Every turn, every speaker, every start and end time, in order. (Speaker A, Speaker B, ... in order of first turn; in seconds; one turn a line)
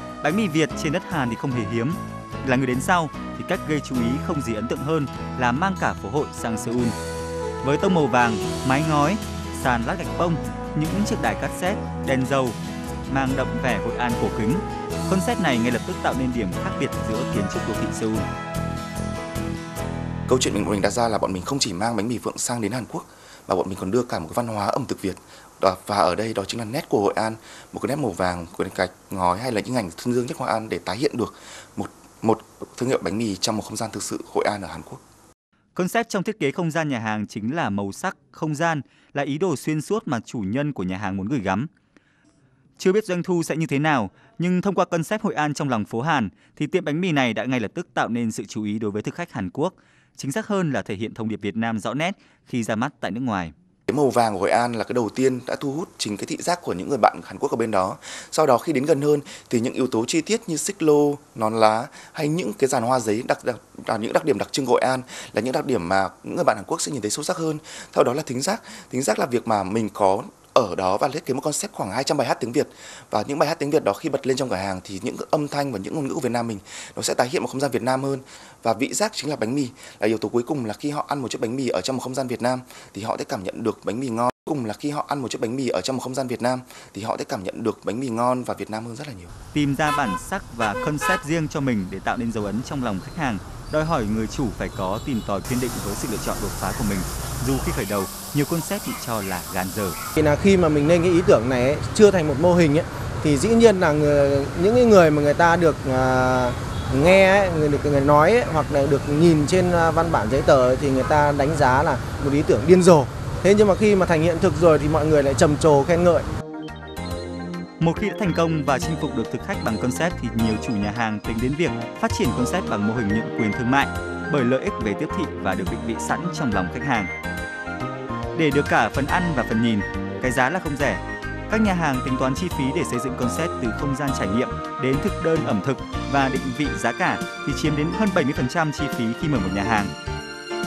Speaker A: 0.2-7.0
Speaker A: 7.6-12.6
Speaker A: 13.1-18.3
Speaker B: 20.3-35.0
Speaker A: 35.8-41.7
Speaker A: 42.8-53.5
Speaker B: 53.9-89.3
Speaker A: 89.5-100.0
Speaker C: 100.2-116.3
Speaker A: 117.8-127.1
Speaker A: 128.3-139.9